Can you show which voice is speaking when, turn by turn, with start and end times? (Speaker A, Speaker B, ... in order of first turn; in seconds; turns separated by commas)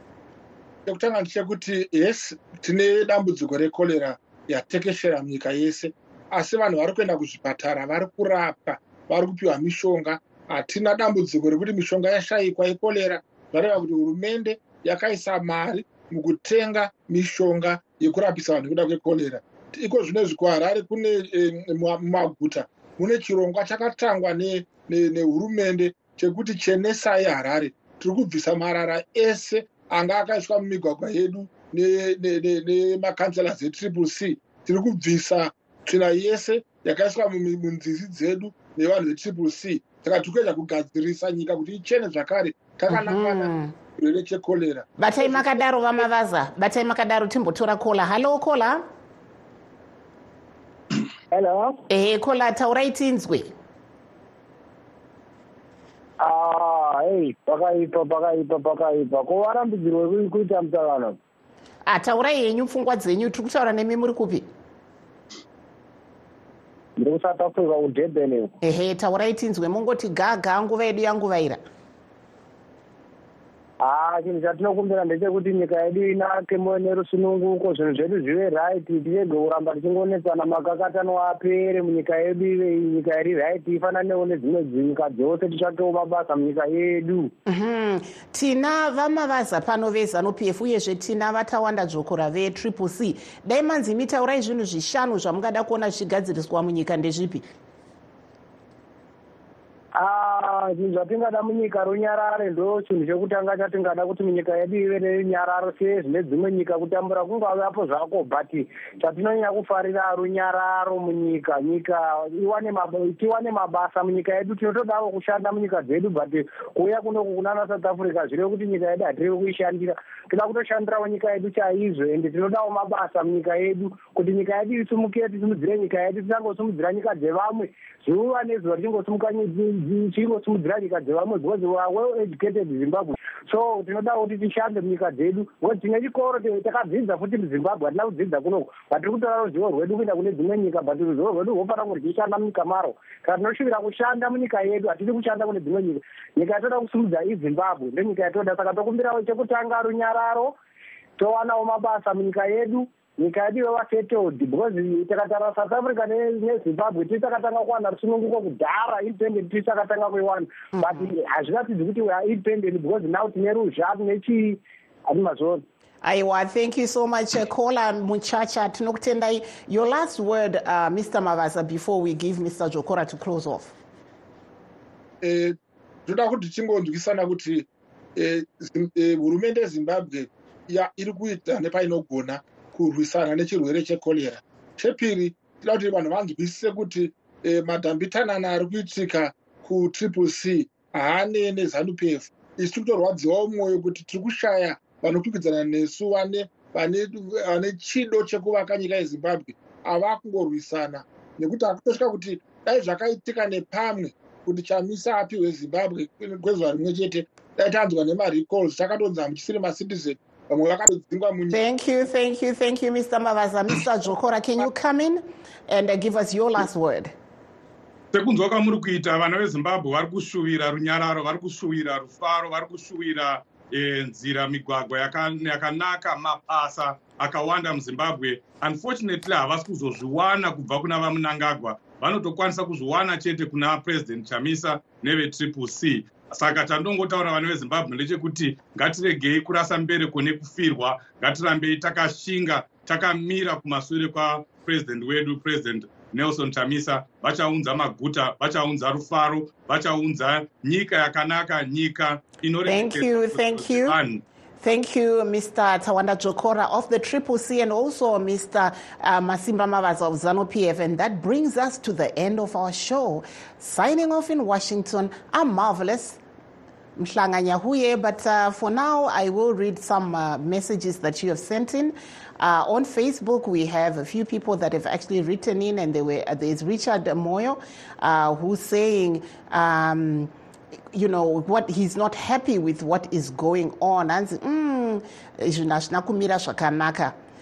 Speaker A: 0.9-45.6, Speaker B: 42.9-43.7, Speaker B: 45.0-48.8, Speaker C: 51.3-51.8, Speaker B: 51.9-53.5, Speaker C: 56.2-61.2, Speaker B: 61.9-64.5, Speaker C: 67.0-68.5, Speaker B: 68.6-71.6, Speaker C: 73.8-87.3, Speaker B: 87.5-97.4, Speaker C: 100.0-150.5, Speaker C: 151.2-165.6, Speaker B: 166.0-173.7, Speaker A: 175.2-211.6, Speaker B: 211.5-217.1, Speaker D: 218.1-254.2, Speaker B: 252.7-254.0, Speaker B: 254.6-266.2, Speaker B: 267.0-280.3, Speaker B: 280.9-287.1